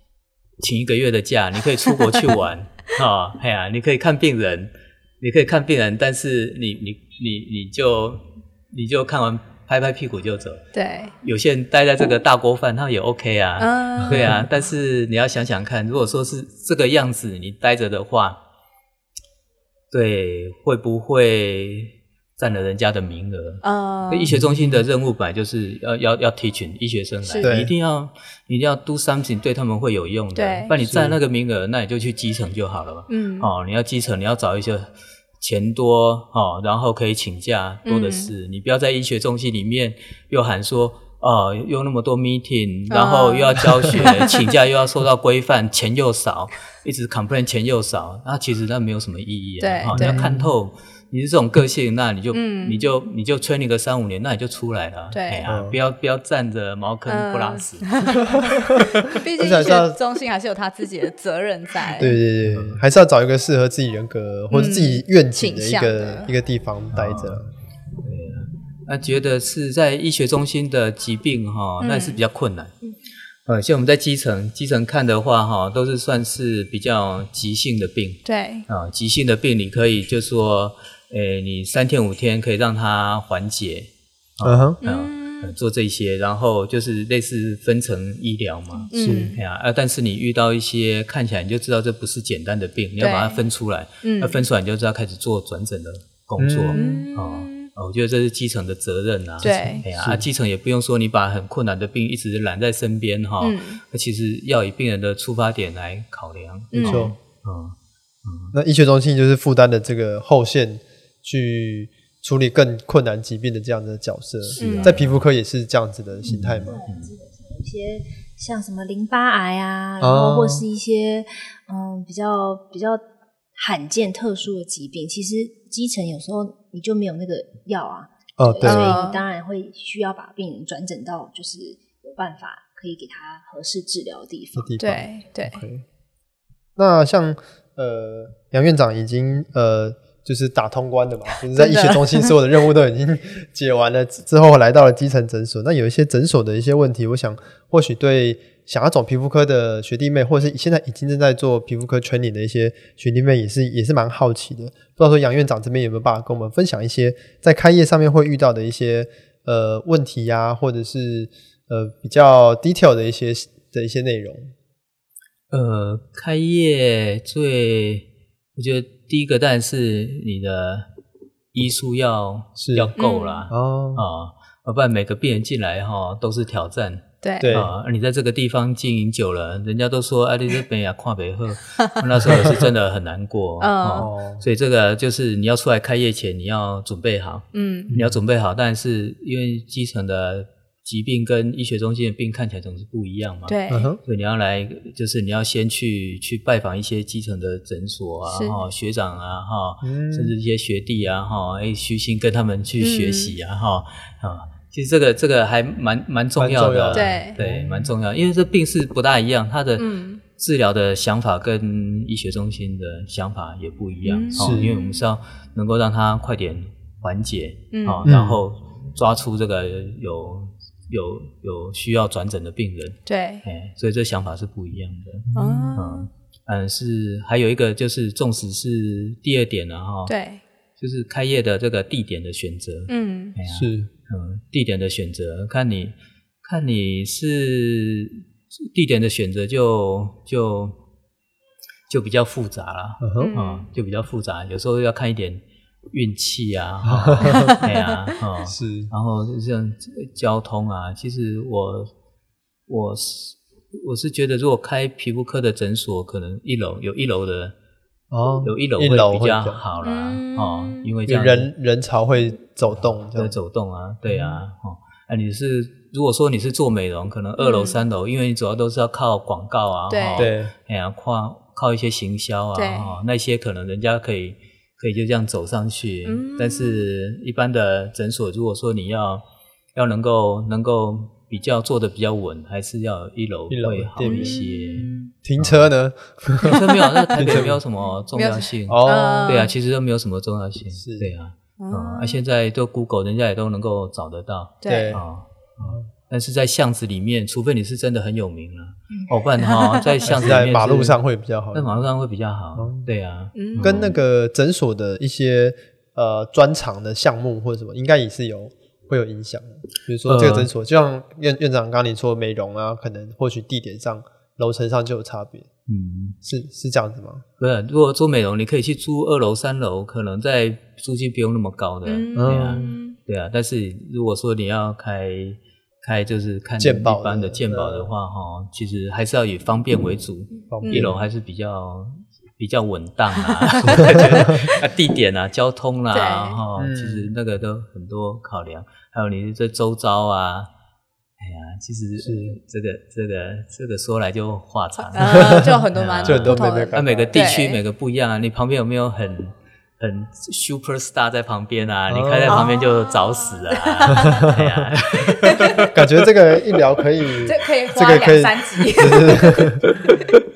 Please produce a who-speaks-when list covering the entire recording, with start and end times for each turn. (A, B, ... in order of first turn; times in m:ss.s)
0:00.6-0:10.6 A
0:10.7-0:11.1 B
0:11.2-0:18.4 A
0:13.6-0:14.3 B
0:19.9-0:58.2 A
0:23.6-0:24.3 B
0:24.3-0:24.8 C
0:27.2-0:27.5 B
0:27.4-0:27.7 C
0:30.3-0:30.7 B
0:30.8-0:31.2 C
0:33.1-0:33.5 B
0:37.8-0:38.3 B
0:42.9-0:44.5 B
0:49.6-0:50.2 B
0:49.9-0:50.5 C
0:52.3-0:52.9 B
0:55.1-0:55.4 B
0:55.4-0:55.8 C
0:57.1-1:02.2 B
0:58.4-1:00.0 C
1:01.9-1:07.5 C
1:02.4-1:02.8 A
1:04.5-1:06.3 B
1:06.9-1:07.4 A
1:08.0-1:12.7 A
1:11.8-1:12.2 B
1:13.4-1:48.5 A
1:18.2-1:18.6 B
1:24.4-1:24.8 C
1:24.8-1:25.5 B
1:28.9-1:29.4 B
1:28.9-1:29.4 C
1:33.0-1:33.4 B
1:34.0-1:34.4 B
1:36.4-1:37.0 C
1:36.7-1:37.7 B
1:39.4-1:39.8 B
1:39.8-1:40.2 C
1:43.4-1:43.8 B
1:46.7-1:47.1 B
1:46.8-1:47.1 C
1:48.5-1:56.8 C
1:54.4-1:55.2 A
1:54.6-1:55.0 B
1:56.2-1:57.1 A
1:56.5-2:03.0 D
2:00.0-2:00.6 C
2:03.6-2:14.8 D
2:08.4-2:09.0 C
2:08.6-2:09.2 B
2:14.6-2:15.8 C
2:14.8-2:15.6 B
2:16.8-2:44.5 C
2:21.5-2:22.3 B
2:45.5-2:50.9 A
2:51.5-3:50.1 A
2:52.6-2:52.9 C
2:53.0-2:53.4 B
2:53.5-2:54.0 C
2:57.2-2:57.5 B
2:57.4-2:57.7 C
3:03.6-3:04.1 B
3:03.9-3:04.4 C
3:07.5-3:07.9 B
3:07.9-3:08.2 C
3:13.5-3:13.9 B
3:13.7-3:14.0 C
3:18.3-3:18.6 B
3:19.8-3:20.3 C
3:22.8-3:23.3 B
3:26.4-3:27.9 C
3:26.9-3:27.4 B
3:29.8-3:30.2 B
3:34.0-3:35.0 B
3:34.4-3:34.7 C
3:37.7-3:38.1 B
3:38.0-3:38.4 C
3:43.1-3:43.4 B
3:45.3-3:46.1 B
3:45.4-3:45.7 C
3:50.1-3:50.4 B
3:50.8-4:00.8 A
3:52.9-3:53.4 B
3:53.5-3:53.9 C
4:01.9-4:11.9 A
4:03.0-4:03.3 C
4:03.2-4:03.7 B
4:06.8-4:07.6 C
4:07.3-4:07.7 B
4:08.4-4:08.9 C
4:12.7-4:17.5 A
4:18.1-4:19.6 C
4:18.4-4:21.5 A
4:19.8-4:20.9 B
4:21.0-4:23.4 C
4:23.1-4:39.2 A
4:24.1-4:24.4 C
4:27.4-4:27.8 B
4:29.9-4:30.3 B
4:30.2-4:30.5 C
4:32.6-4:32.9 B
4:36.0-4:36.9 B
4:39.7-4:45.7 A
4:43.5-4:44.4 C
4:44.0-4:45.1 B
4:45.2-4:47.6 C
4:46.4-5:01.0 A
4:47.1-4:47.4 B
4:48.1-4:49.5 B
4:48.7-4:49.5 C
4:50.8-4:51.1 C
4:51.6-4:52.2 B
4:54.6-4:55.0 B
4:54.6-4:55.0 C
4:55.6-4:55.8 C
4:59.4-5:00.0 B
5:00.0-5:01.8 C
5:01.5-5:04.0 A
5:02.6-5:02.9 C
5:03.3-5:03.9 B
5:03.6-5:15.5 C
5:10.0-5:10.5 A
5:15.7-5:16.2 A
5:16.2-5:17.2 C
5:17.4-5:40.5 A
5:21.8-5:23.0 B
5:22.2-5:22.7 C
5:26.6-5:27.9 C
5:30.5-5:31.0 C
5:30.6-5:30.9 B
5:33.7-5:34.4 B
5:33.8-5:34.4 C
5:35.9-5:36.4 B
5:36.6-5:37.1 C
5:41.2-5:55.7 A
5:42.0-5:42.4 C
5:44.9-5:47.6 B
5:45.1-5:47.3 C
5:51.9-5:52.5 C
5:52.3-5:54.2 B
5:54.0-5:54.7 C
5:55.2-5:55.7 B
5:55.6-5:59.6 C
5:57.2-5:59.5 B
5:59.7-6:00.2 A